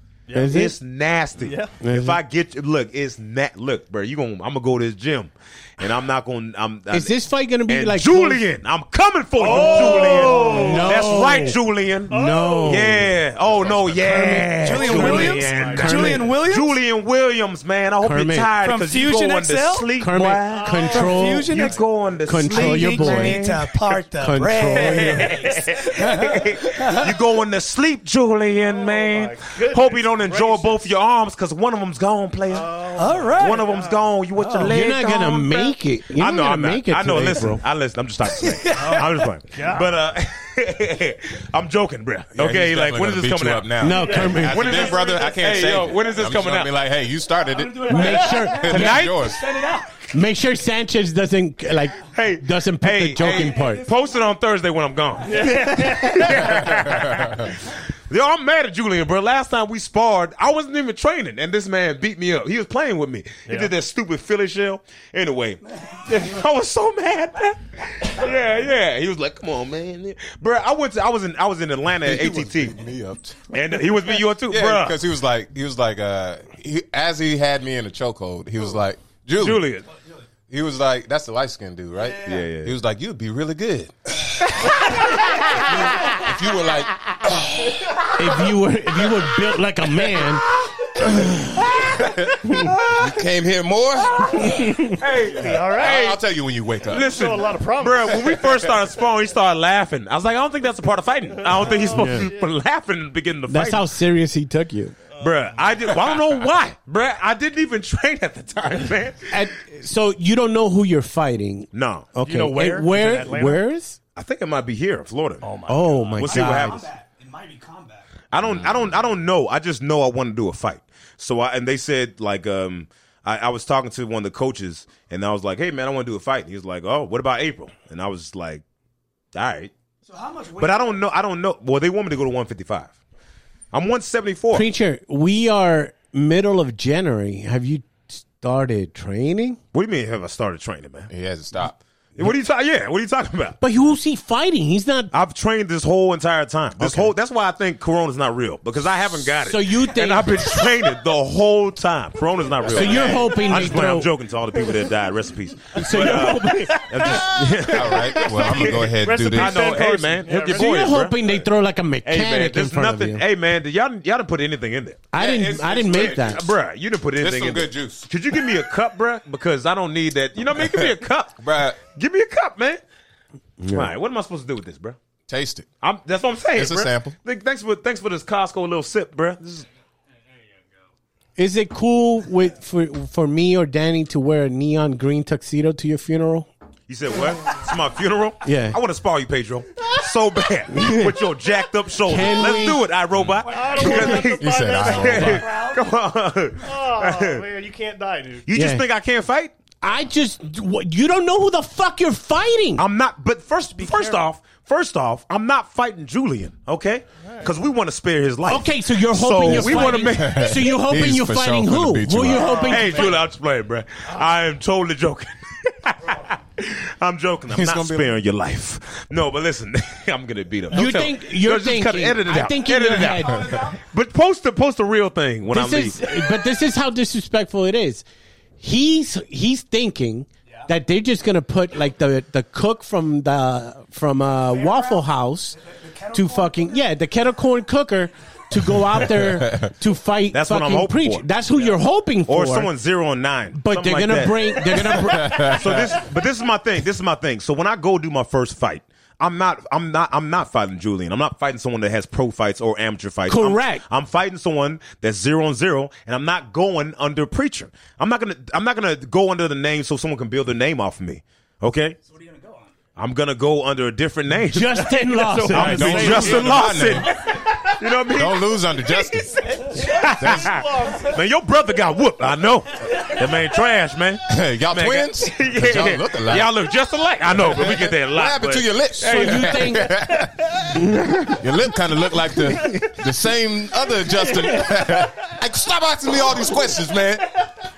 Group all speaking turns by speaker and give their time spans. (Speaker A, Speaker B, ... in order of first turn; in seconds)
Speaker A: 0.3-0.6, 1.4-1.7, 9.4-11.1, 12.1-13.0, 14.1-16.2, 20.5-21.8, 24.9-25.5, 28.6-30.9, 32.5-34.1, 38.7-39.9, 43.9-45.1, 48.0-48.3, 55.2-56.7, 63.5-63.7, 95.0-96.2, 97.0-98.3, 101.5-102.5, 112.2-113.6, 115.4-116.2, 155.9-157.2, 158.2-160.9, 193.4-195.4, 196.6-198.4, 203.8-204.2, 207.2-207.5, 212.3-213.1, 264.8-267.5, 269.3-271.2
Speaker B: 0.3-0.8, 1.8-2.2, 6.9-8.4, 9.5-11.6, 12.1-13.1, 14.8-16.3, 18.0-18.5, 20.0-21.6, 22.2-23.5, 24.2-25.4, 34.6-37.6, 43.8-44.8, 47.8-49.0, 50.1-53.9, 88.2-90.5, 94.4-95.0, 101.9-102.3, 103.5-104.9, 109.3-114.0, 115.7-116.9, 134.5-139.6, 143.6-145.1, 146.8-147.1, 149.3-150.5, 152.6-154.1, 155.7-158.4, 160.5-163.2, 165.1-166.4, 173.6-173.9, 181.3-186.5, 188.4-188.8, 190.7-191.2, 192.0-192.8, 198.5-198.8, 199.8-202.8, 208.5-213.2, 220.7-223.6, 225.5-228.0, 228.6-235.6, 236.1-242.7, 243.5-245.6, 253.3-253.8, 264.4-266.5, 279.0-280.0, 280.7-281.4, 282.5-282.9
Speaker C: 0.5-35.5, 36.1-46.7, 48.6-49.4, 52.1-72.8, 73.5-75.0, 79.4-79.9, 82.2-82.7, 94.9-95.6, 96.9-103.9, 105.2-109.4, 111.7-112.1, 114.2-115.5, 116.1-116.8, 118.3-128.6, 129.3-129.7, 130.6-132.9, 133.7-134.7, 139.7-141.1, 142.2-143.6, 145.1-161.4, 162.0-165.0, 165.9-172.8, 173.7-175.0, 175.8-179.7, 186.9-197.4, 198.4-199.5, 202.8-210.7, 212.6-226.1, 240.3-241.2, 242.3-262.0, 262.9-265.0, 265.5-268.5, 269.7-279.3
Speaker D: 9.4-10.8, 14.0-16.8, 18.6-27.1, 33.0-33.7, 34.4-35.7, 38.4-39.2, 47.4-50.1, 53.2-54.0, 116.2-118.1, 130.1-131.0, 149.8-150.8, 194.8-195.9, 234.5-235.0, 235.6-236.7, 262.1-262.7
Speaker E: 13.5-13.9, 42.3-49.4, 56.4-57.5, 72.0-73.5, 74.4-79.7, 80.5-88.5, 91.0-97.2, 141.1-141.8, 157.7-159.8, 165.1-166.5, 167.2-168.1, 170.6-171.8, 175.3-175.7, 176.5-177.1, 194.3-195.5, 209.4-212.6, 217.5-218.1, 238.9-239.7, 245.1-246.0, 265.6-267.4, 268.1-270.6, 274.2-276.5, 277.3-287.4